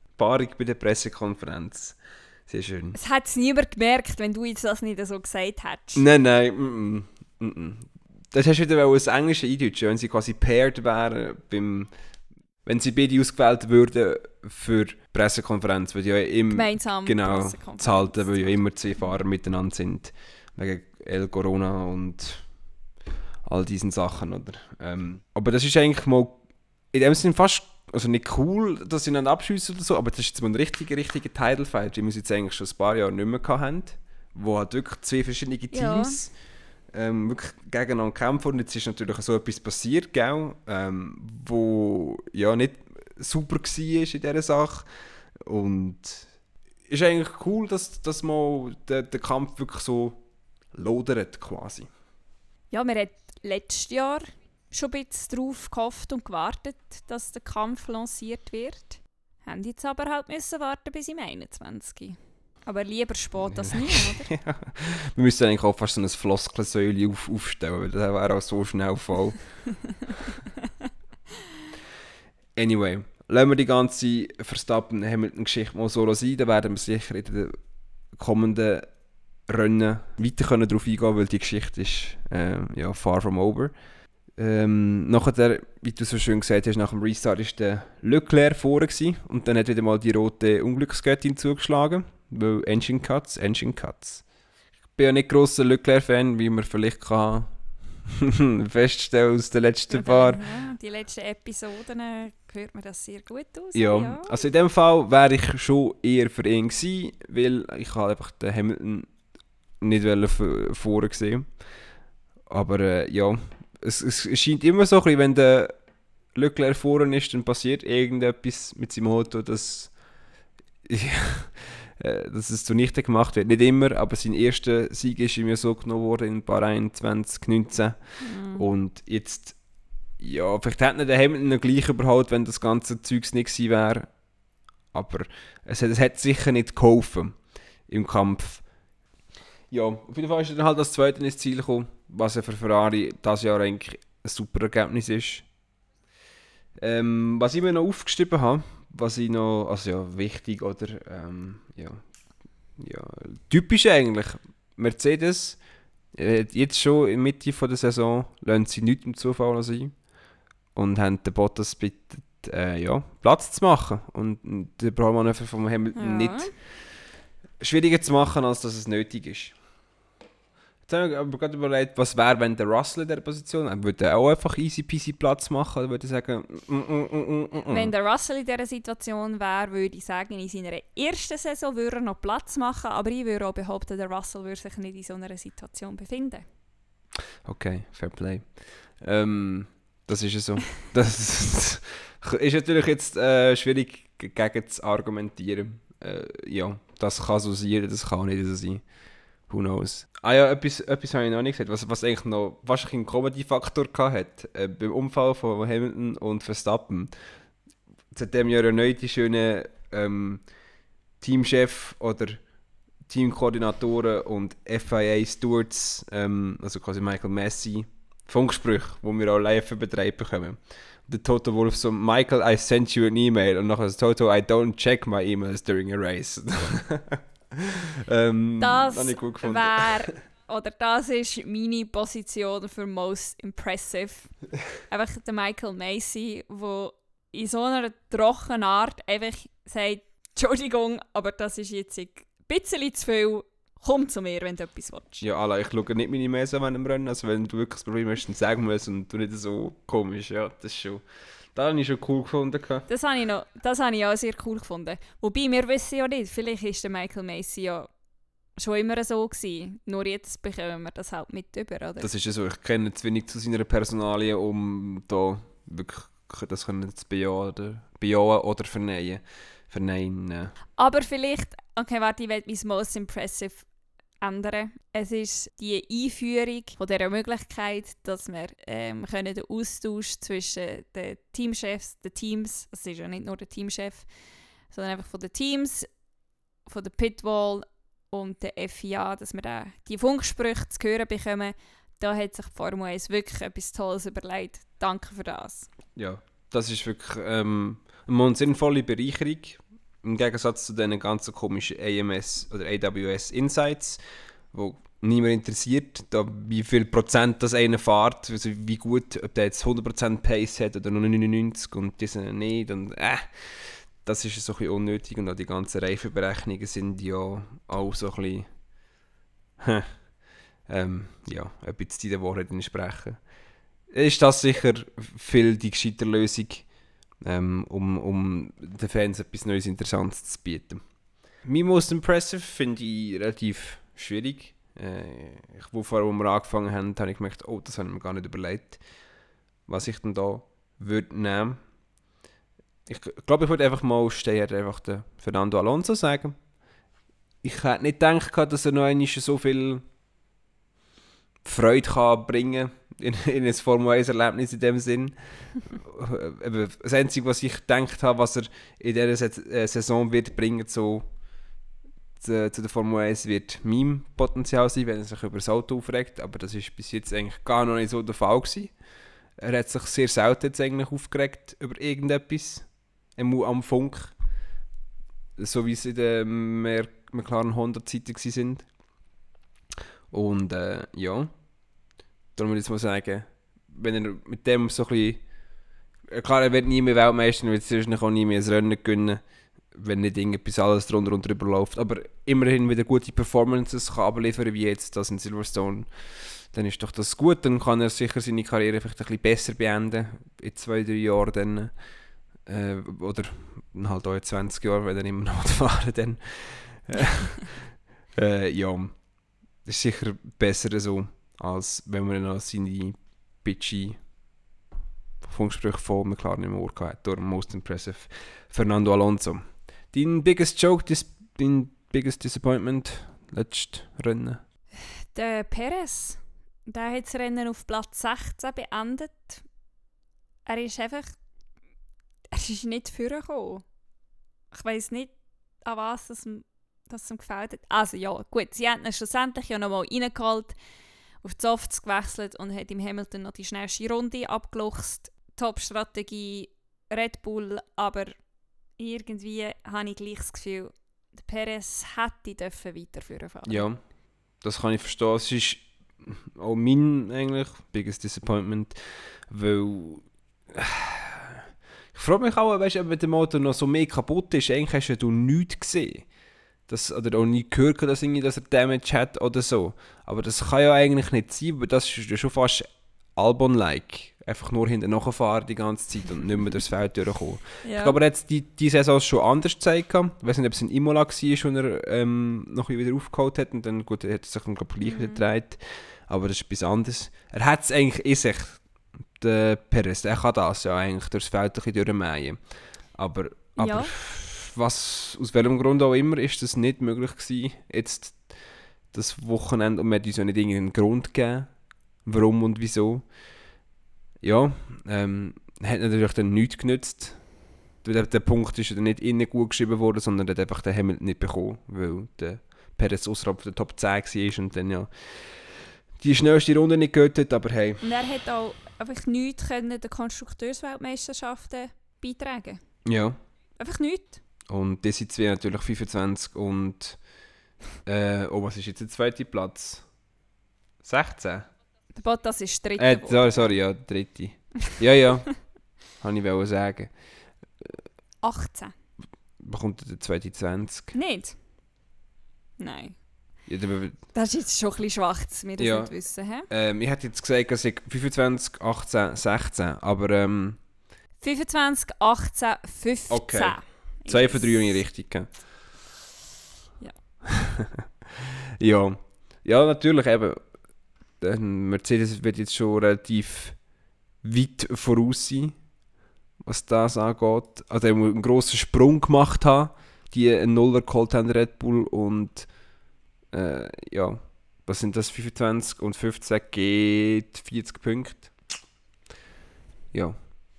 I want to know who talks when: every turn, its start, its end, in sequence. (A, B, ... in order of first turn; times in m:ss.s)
0:00.2-0:03.0 A
0:02.9-0:06.0 B
0:06.0-0:11.9 A
0:12.6-0:22.4 A
0:16.5-0:18.6 B
0:23.4-0:26.4 A
0:26.9-0:36.3 A
0:35.7-0:36.2 B
0:36.9-0:44.9 A
0:45.4-0:46.3 A
0:46.9-0:50.2 A
0:50.7-0:51.9 A
0:52.7-1:04.3 B
1:03.4-1:09.4 A
1:12.6-1:17.6 A
1:18.1-1:18.9 A
1:19.5-1:23.7 A
1:24.4-1:34.2 A
1:35.0-1:37.5 A
1:38.0-1:40.4 A
1:39.9-1:44.4 B
1:43.7-1:49.1 A
1:49.8-1:51.5 A
1:52.5-1:55.7 A
1:56.3-2:00.0 A
2:00.8-2:09.6 A
2:08.2-2:08.6 B
2:10.2-2:14.1 A
2:14.9-2:18.6 A
2:19.7-2:25.4 A
2:26.8-2:32.0 A
2:32.8-2:35.6 A
2:36.1-2:40.0 A
2:40.7-2:47.0 A
2:45.9-2:46.5 B
2:47.6-2:49.6 A
2:50.9-2:57.9 A
2:57.7-3:06.4 B
3:07.4-3:18.8 A
3:19.5-3:27.1 A
3:28.1-3:30.4 A
3:31.2-3:32.4 A
3:33.1-3:50.1 A
3:48.6-4:05.2 B
4:05.2-4:11.0 A
4:11.5-4:12.8 A
4:12.9-4:17.9 B
4:18.6-4:22.1 B
4:22.0-4:30.5 A
4:30.8-4:33.6 B
4:34.2-4:44.1 B
4:44.7-4:45.9 B
4:46.6-4:55.7 B
4:56.0-5:04.0 A
5:04.5-5:18.5 A
5:19.6-5:20.0 A
5:20.7-5:23.2 A
5:23.9-5:26.7 A
5:27.2-5:30.8 A
5:31.4-5:38.8 A
5:39.7-5:41.6 A
5:42.8-5:46.4 A
5:47.4-5:49.8 A
5:51.4-6:01.0 A
6:02.2-6:08.7 A
6:09.4-6:14.1 A
6:15.4-6:18.7 A
6:20.1-6:21.3 A
6:22.3-6:25.2 A
6:26.1-6:29.2 A
6:29.7-6:41.7 A
6:42.4-6:49.0 A
6:49.6-6:54.0 A
6:55.2-7:04.4 A
7:04.7-7:09.4 B
7:10.4-7:11.1 B
7:12.3-7:13.6 B
7:14.5-7:20.6 B
7:21.2-7:28.1 B
7:28.8-7:33.7 B
7:33.4-7:33.8 A
7:34.4-7:46.1 A
7:46.7-8:08.6 A
7:57.6-7:58.0 B
8:04.8-8:05.2 B
8:09.2-8:18.3 A
8:13.6-8:13.9 B
8:18.9-8:23.1 A
8:24.2-8:27.2 A
8:27.8-8:37.8 A
8:37.8-8:42.6 B
8:42.8-8:43.2 A
8:43.6-8:44.2 B
8:44.5-8:47.0 A
8:47.8-8:49.8 A
8:50.8-8:51.4 A
8:52.0-8:53.5 B
8:52.8-8:55.4 A
8:56.0-8:56.9 A
8:58.2-8:58.7 B
8:59.4-9:00.9 A
9:00.9-9:01.4 B
9:02.6-9:03.0 B
9:03.4-9:04.0 A
9:04.1-9:06.5 B
9:05.6-9:05.9 A
9:06.5-9:10.6 A
9:11.2-9:14.8 B
9:13.1-9:15.3 A
9:17.3-9:17.8 A
9:18.6-9:20.4 A
9:21.2-9:23.6 A
9:24.2-9:25.6 A
9:26.4-9:32.5 A
9:33.3-9:38.3 A